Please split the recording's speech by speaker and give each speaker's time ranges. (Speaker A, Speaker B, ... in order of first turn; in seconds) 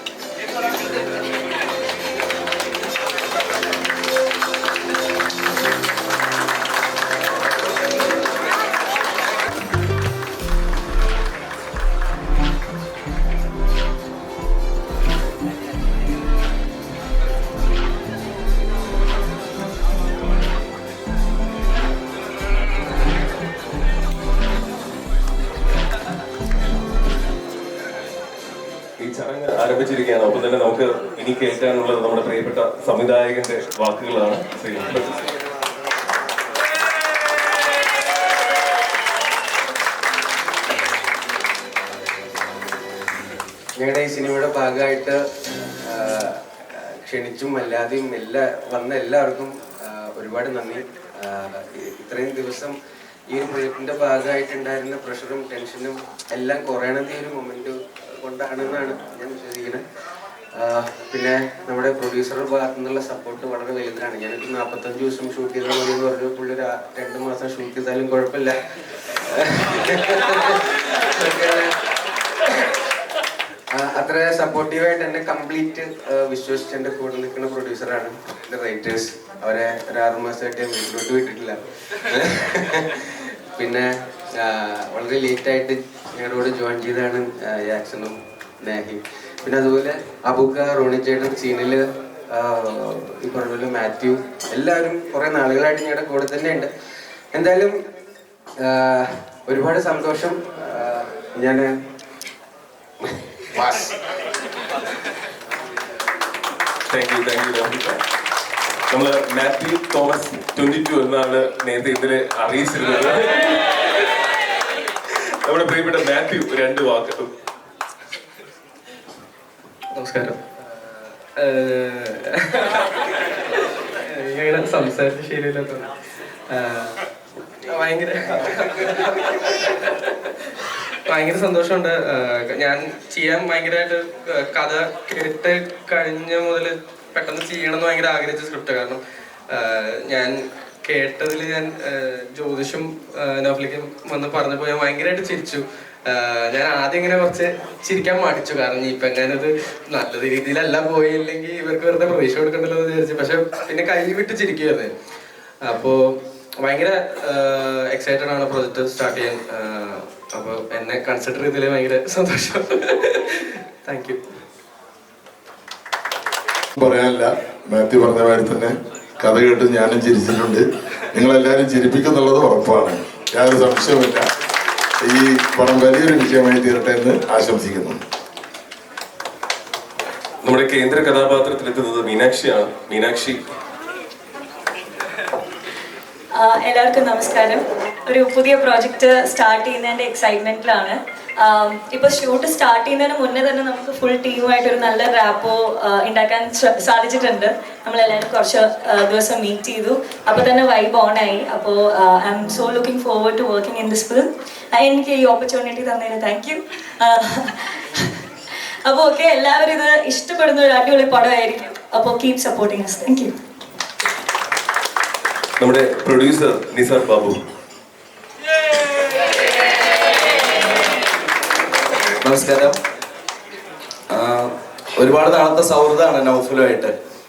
Speaker A: 29.0-34.9, 106.9-107.8, 108.9-113.3, 115.4-117.3, 180.4-183.3, 215.6-217.3
Speaker B: 43.8-45.2, 45.9-46.4, 47.0-52.7, 53.3-59.8, 60.6-68.5, 69.3-70.6, 71.2-71.7, 73.8-83.0, 83.6-83.9, 84.4-91.8, 92.3-96.7, 97.3-97.7, 98.6-101.7
Speaker C: 119.9-120.4, 121.3-122.6, 124.1-125.9, 126.5-127.0, 127.6-129.6, 131.1-154.9, 155.6-164.2
Speaker D: 166.8-167.2, 167.7-168.7, 169.2-170.6, 171.1-174.2, 175.0-178.0
Speaker E: 186.4-208.1, 208.8-213.3
Speaker F: 222.2-222.8, 224.1-226.9